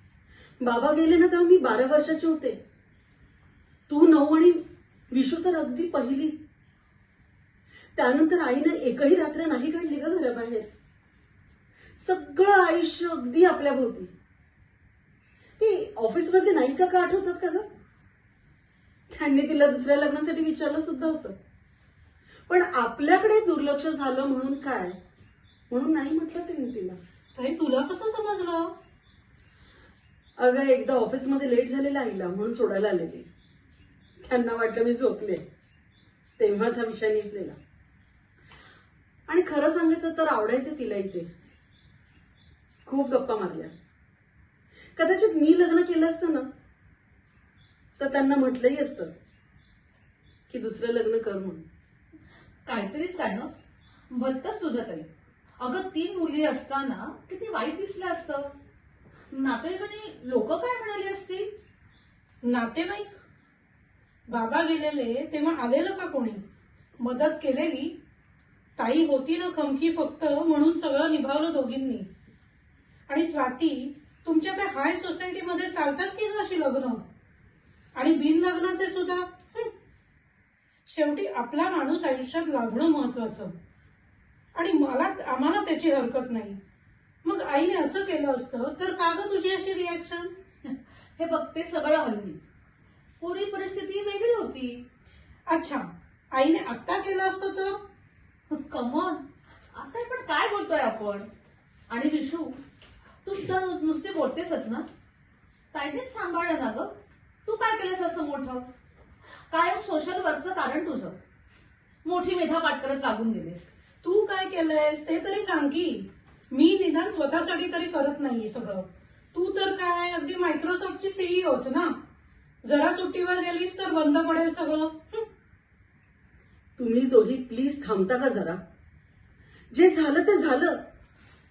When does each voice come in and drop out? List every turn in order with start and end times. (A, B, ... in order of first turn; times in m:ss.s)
0:00.6-0:02.6 A
0:03.9-0:06.3 A
0:08.0-0:10.7 A
0:12.0-0:14.1 A
0:15.6-0:17.6 A
0:19.1-0:21.4 A
0:22.5-0:25.0 A
0:25.7-0:27.0 A
0:27.3-0:28.7 B
0:30.4-0:33.2 A
0:34.2-0:35.4 A
0:36.4-0:37.6 A
0:39.3-0:41.3 A
0:42.8-0:43.7 A
0:45.0-0:46.4 A
0:48.0-0:49.1 A
0:50.5-0:51.6 A
0:52.6-0:53.5 C
0:54.1-0:55.1 C
0:55.6-0:58.5 C
0:59.3-1:01.5 C
1:02.4-1:03.2 B
1:04.3-1:06.4 B
1:07.0-1:07.9 B
1:08.8-1:12.1 B
1:13.1-1:17.0 B
1:17.9-1:19.7 B
1:20.9-1:23.5 B
1:24.5-1:26.6 B
1:27.2-1:30.3 B
1:30.6-1:32.4 C
1:33.2-1:34.8 C
1:35.5-1:37.8 B
1:38.5-1:41.3 C
1:41.9-1:42.6 C
1:43.2-1:44.9 C
1:45.7-1:46.9 C
1:47.4-1:48.6 C
1:49.5-1:51.2 C
1:52.0-1:53.7 C
1:54.0-2:01.9 B
2:02.6-2:05.2 B
2:06.8-2:08.6 A
2:09.7-2:10.8 A